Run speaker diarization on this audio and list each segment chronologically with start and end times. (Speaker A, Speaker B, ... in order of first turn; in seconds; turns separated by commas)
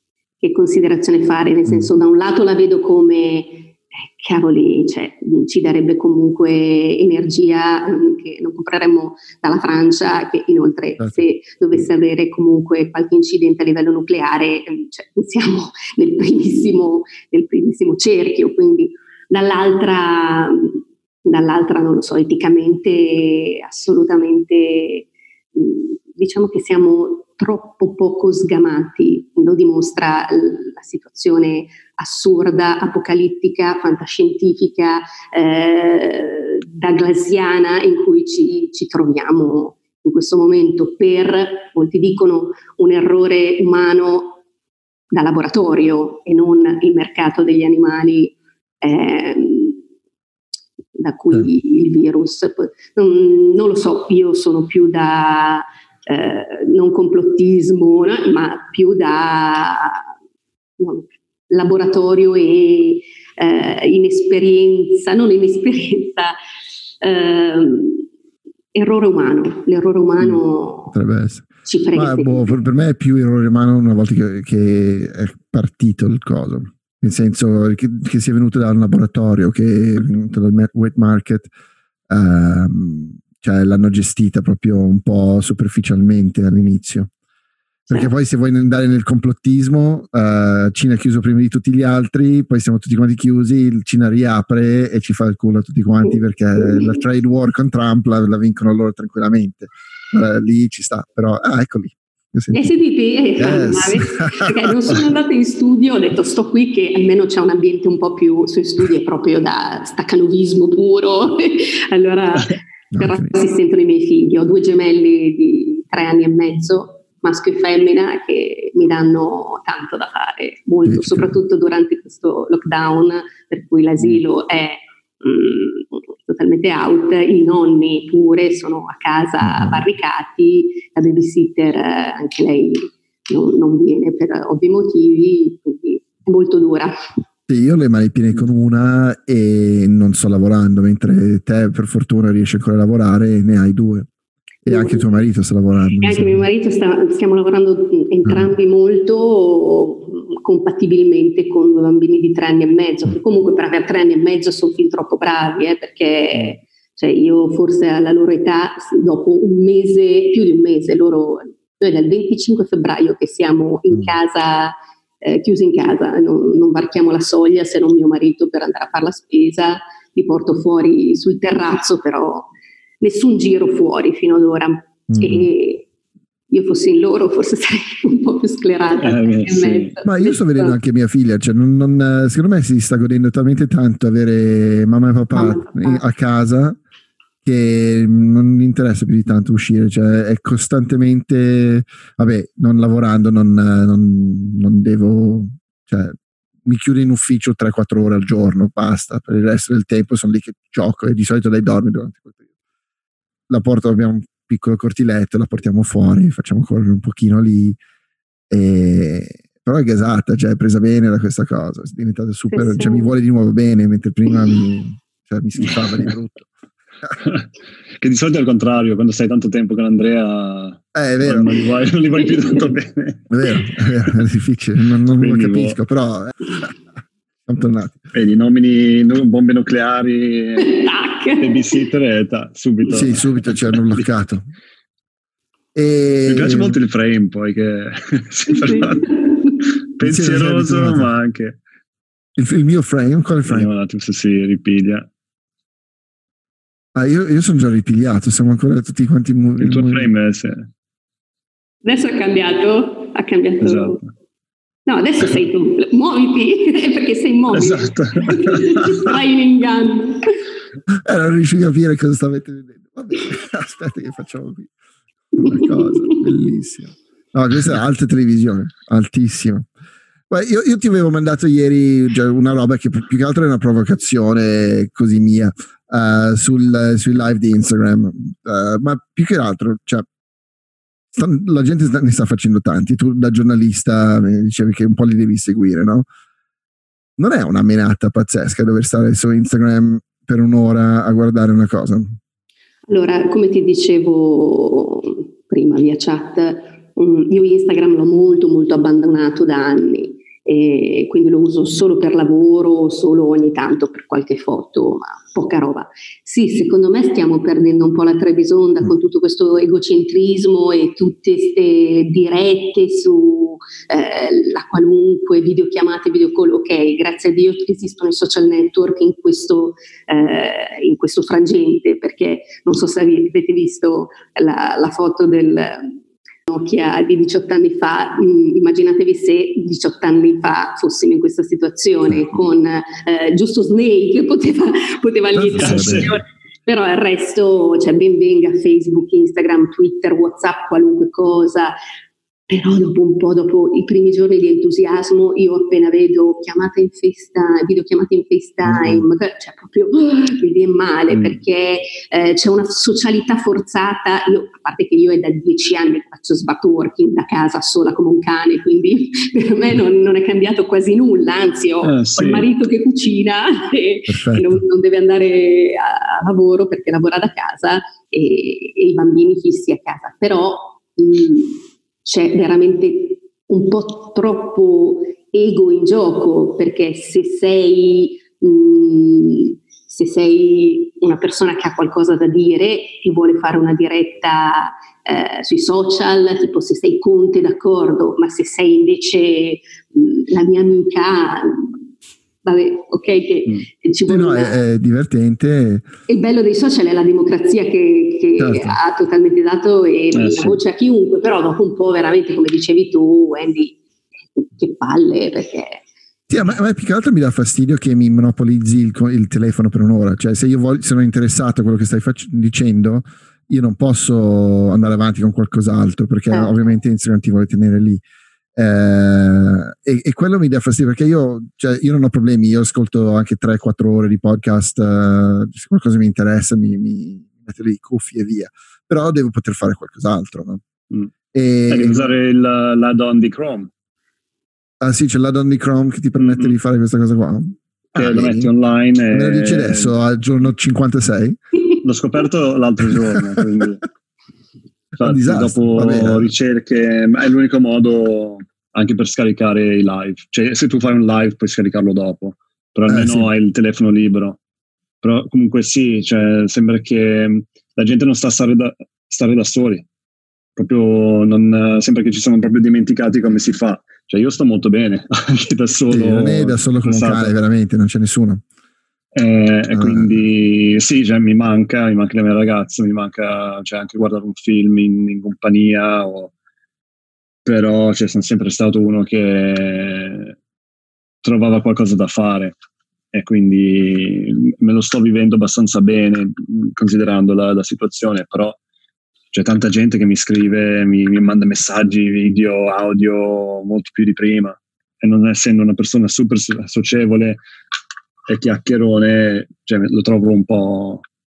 Speaker A: 0.4-44.4, Speaker B: 11.0-11.2, Speaker A: 45.1-49.8, Speaker A: 51.0-60.1, Speaker A: 60.8-66.4, Speaker A: 67.0-68.1, Speaker A: 68.7-71.0, Speaker B: 70.2-81.5, Speaker A: 71.7-72.6, Speaker B: 82.1-87.1, Speaker B: 87.9-102.8, Speaker A: 96.0-97.0, Speaker A: 102.5-136.9, Speaker B: 103.4-104.7, Speaker B: 112.9-113.3, Speaker B: 120.8-121.4, Speaker B: 129.4-129.8, Speaker B: 137.5-144.1, Speaker B: 144.7-146.5, Speaker A: 144.7-145.1, Speaker A: 146.0-172.5, Speaker B: 148.3-148.5, Speaker B: 163.9-164.2, Speaker A: 173.0-175.9, Speaker B: 175.1-175.5, Speaker A: 176.5-180.8, Speaker C: 179.0-179.9, Speaker B: 180.1-186.8, Speaker A: 185.3-186.1, Speaker B: 187.4-202.4, Speaker B: 203.5-207.8, Speaker B: 208.5-216.5, Speaker A: 212.5-213.1, Speaker C: 215.6-216.1, Speaker C: 217.2-217.5, Speaker C: 218.0-223.3, Speaker B: 220.9-221.5, Speaker A: 222.2-222.7, Speaker B: 223.3-226.8, Speaker C: 225.2-225.8, Speaker B: 227.5-228.1, Speaker C: 228.1-230.7, Speaker A: 230.6-231.8, Speaker C: 231.4-234.0, Speaker B: 232.9-234.5, Speaker B: 235.8-236.8, Speaker C: 236.3-239.1, Speaker A: 238.5-239.6, Speaker C: 239.9-241.6, Speaker B: 240.0-241.1, Speaker B: 242.4-243.7, Speaker C: 243.5-245.1, Speaker B: 246.9-250.1, Speaker C: 249.6-250.7, Speaker A: 251.8-254.0, Speaker C: 253.6-254.0, Speaker A: 254.9-260.2, Speaker C: 257.5-259.1, Speaker B: 261.1-264.7, Speaker B: 265.3-269.7, Speaker A: 265.4-266.2, Speaker B: 270.3-280.1, Speaker B: 281.1-286.1, Speaker B: 287.2-292.2, Speaker A: 292.9-341.8, Speaker B: 335.3-336.1, Speaker C: 335.6-336.1, Speaker A: 342.5-391.8, Speaker C: 351.1-351.4, Speaker C: 361.8-362.5, Speaker B: 364.1-364.6, Speaker A: 392.4-394.6, Speaker B: 394.1-395.9, Speaker A: 396.1-403.8, Speaker B: 398.4-398.8, Speaker C: 400.1-400.6, Speaker A: 404.4-405.9, Speaker B: 406.3-418.0, Speaker A: 416.3-416.7, Speaker B: 418.6-430.6, Speaker B: 431.3-432.1, Speaker C: 431.7-433.7, Speaker B: 434.8-438.5, Speaker C: 436.2-436.6, Speaker C: 437.9-439.9, Speaker B: 439.1-441.4, Speaker C: 441.8-443.8, Speaker B: 442.9-443.4, Speaker B: 445.0-446.3, Speaker C: 445.0-454.4, Speaker B: 452.9-453.3, Speaker C: 455.0-459.9, Speaker C: 460.6-467.3, Speaker B: 465.9-468.4, Speaker C: 469.1-476.3, Speaker B: 469.7-470.3, Speaker C: 477.5-480.4, Speaker C: 481.2-482.6, Speaker C: 483.1-488.6, Speaker C: 489.3-497.4, Speaker C: 498.3-501.0